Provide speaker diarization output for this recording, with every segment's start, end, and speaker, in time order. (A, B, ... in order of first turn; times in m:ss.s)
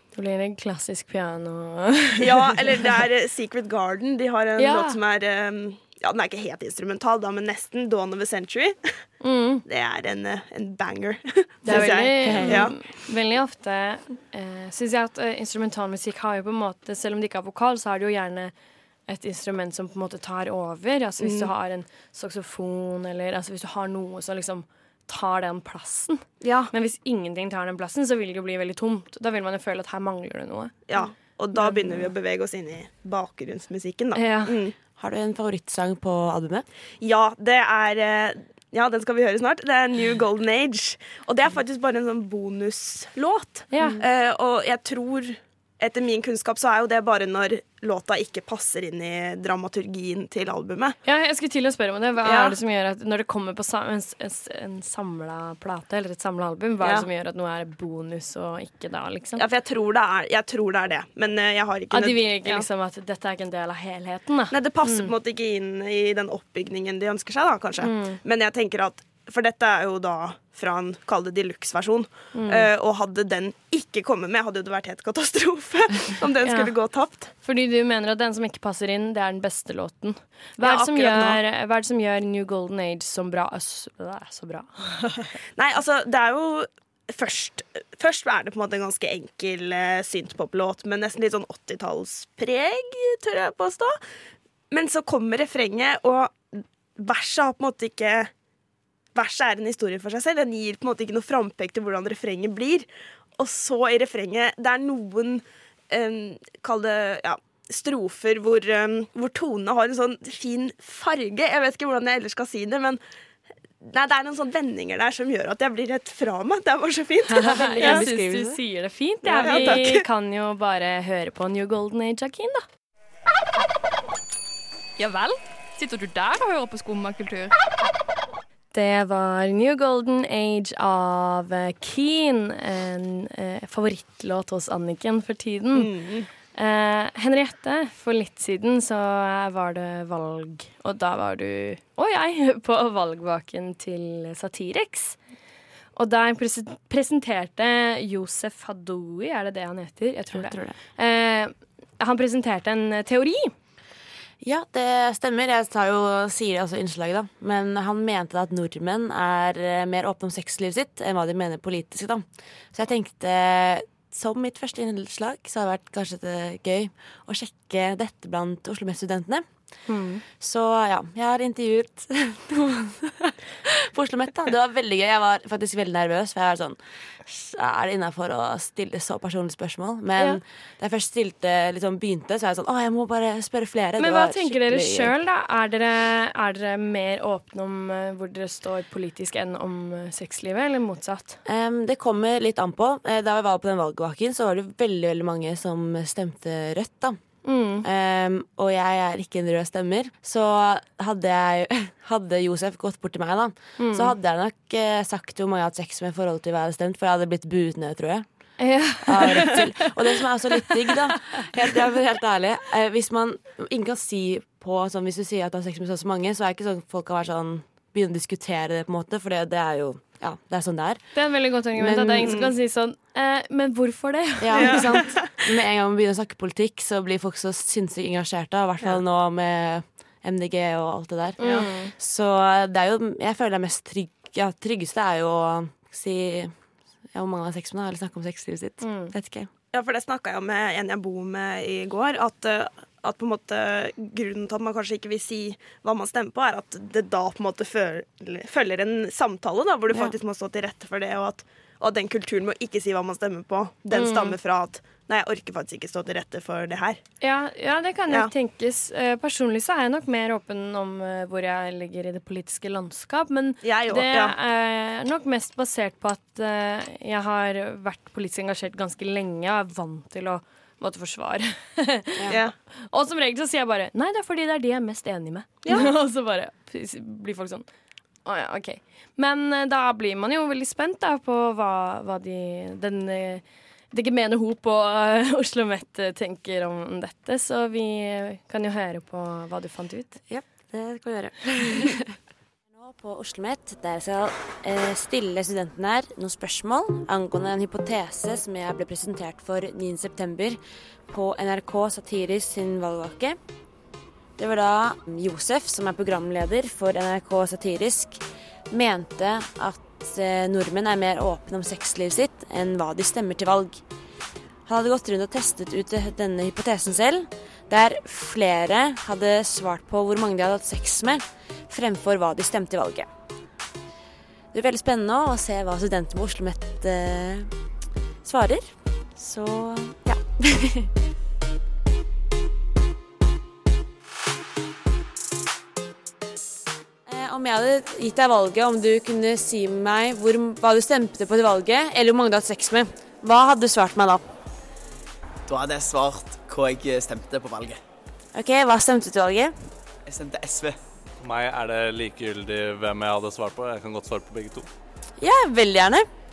0:00.2-0:02.5 A
0:02.2-0:08.9 B
0:04.6-0:05.0 A
0:09.2-0:09.6 A
0:09.7-0:12.8 B
0:11.6-0:18.5 A
0:11.7-0:12.7 C
0:19.1-0:31.0 A
0:21.2-0:21.5 B
0:26.4-0:26.7 B
0:30.9-0:34.8 B
0:31.6-0:32.1 A
0:34.2-0:34.6 A
0:35.0-0:36.7 C
0:37.0-0:51.0 B
0:43.7-0:44.0 A
0:51.0-0:59.4 A
0:52.2-0:52.6 B
0:56.8-0:57.1 B
0:59.4-1:02.7 B
1:01.9-1:05.1 A
1:04.5-1:17.3 B
1:07.8-1:08.2 A
1:12.3-1:12.7 A
1:16.4-1:16.7 A
1:17.4-1:25.3 A
1:20.6-1:21.4 B
1:25.6-1:34.0 B
1:34.7-1:38.3 B
1:39.1-1:53.0 B
1:53.8-1:58.0 B
1:57.3-2:02.6 A
1:57.4-1:58.6 C
1:59.3-2:00.0 B
1:59.4-1:59.8 C
2:05.0-2:07.5 D
2:08.7-2:15.9 A
2:15.7-2:16.3 B
2:16.6-2:25.2 A
2:26.0-2:33.5 A
2:30.3-2:30.8 C
2:34.4-2:49.5 C
2:49.9-2:50.2 A
2:50.4-3:05.1 C
3:04.0-3:11.4 A
3:11.4-3:17.2 C
3:17.4-3:17.8 A
3:17.8-3:28.3 C
3:23.8-3:24.1 A
3:28.6-3:30.9 A
3:29.0-3:42.4 C
3:41.1-3:45.1 A
3:42.2-3:42.5 B
3:44.4-3:56.6 C
3:44.6-3:45.3 B
3:51.4-3:51.9 A
3:51.4-3:51.6 B
3:57.1-3:59.5 C
3:58.8-3:59.1 A
3:59.7-4:17.0 B
4:13.9-4:14.4 A
4:17.2-4:37.6 A
4:23.6-4:24.4 B
4:32.3-4:32.6 B
4:35.6-4:35.9 B
4:38.2-4:50.2 A
4:50.3-4:52.2 C
4:52.7-5:03.4 C
5:04.4-5:13.8 C
5:14.7-5:23.1 C
5:24.5-5:27.5 C
5:28.2-5:30.9 C
5:37.1-5:44.2 C
5:45.5-5:47.8 E
5:48.3-5:49.7 C
5:50.1-5:50.8 E
5:51.2-5:54.7 F
5:55.2-5:56.1 C